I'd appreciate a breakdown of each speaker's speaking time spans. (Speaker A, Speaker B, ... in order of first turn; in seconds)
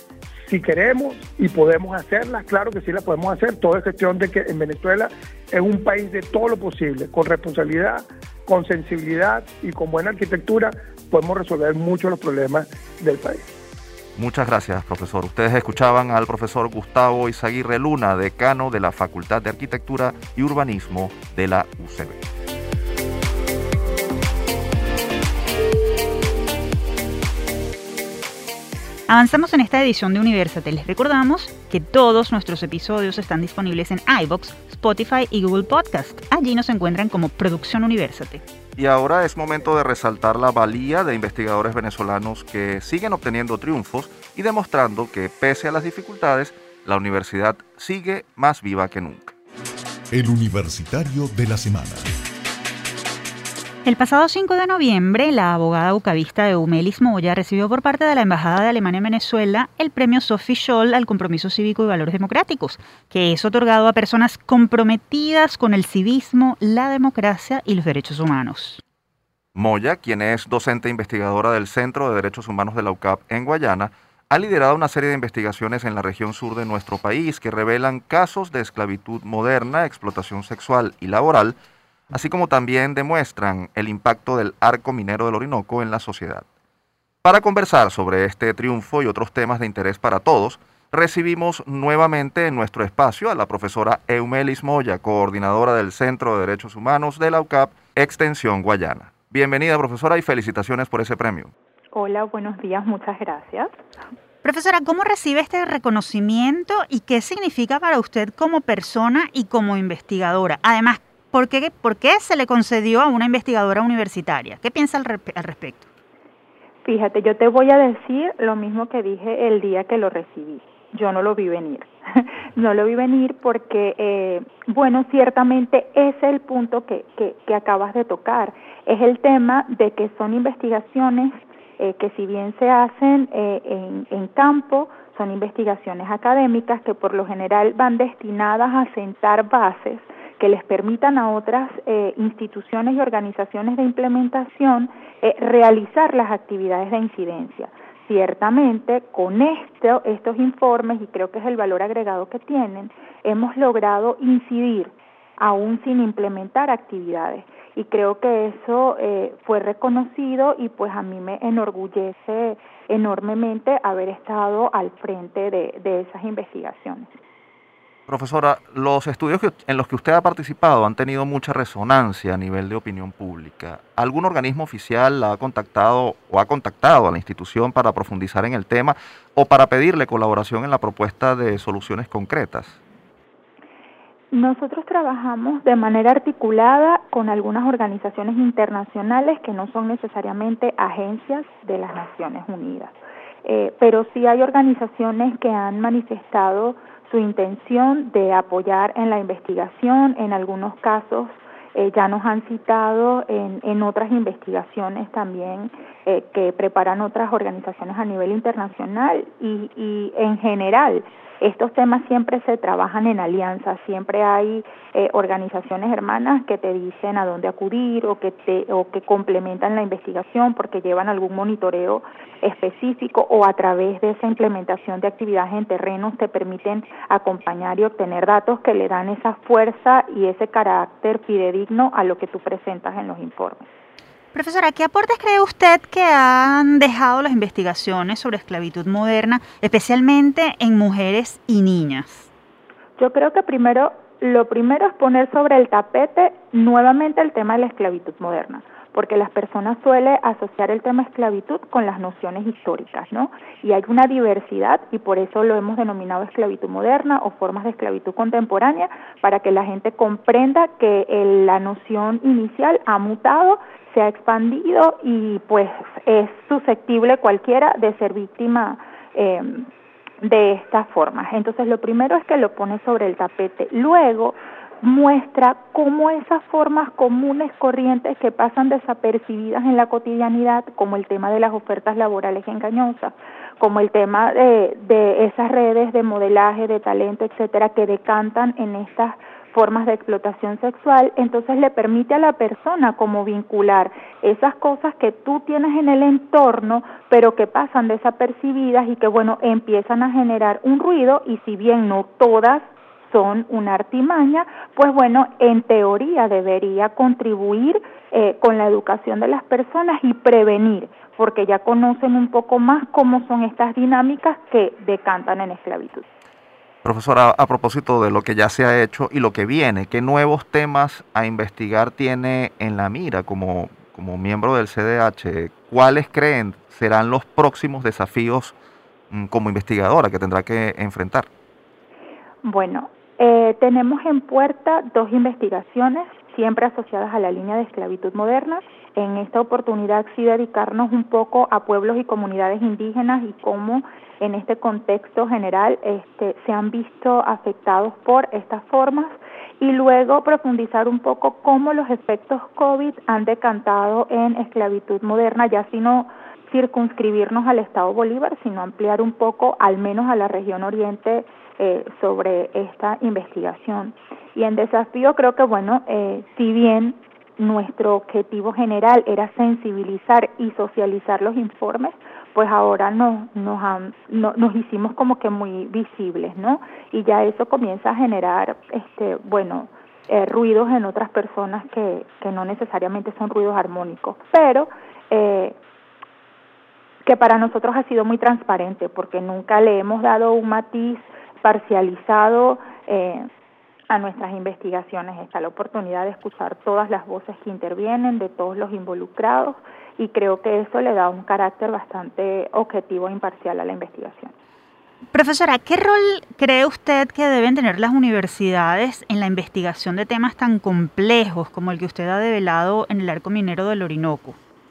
Speaker A: 0.5-13.4
Speaker B: 14.2-22.2, 38.8-49.3, 69.5-81.6, 82.1-86.5, 87.2-101.5, 168.1-182.8, 316.8-328.5, 329.1-331.3
Speaker C: 29.1-38.4, 53.8-68.8, 104.4-115.9, 234.3-242.3, 405.1-414.4
Speaker D: 50.1-52.1
Speaker E: 101.9-103.7, 116.8-167.1, 184.3-233.7, 243.0-269.7, 270.2-316.1, 332.4-385.6, 387.1-393.3, 393.9-404.3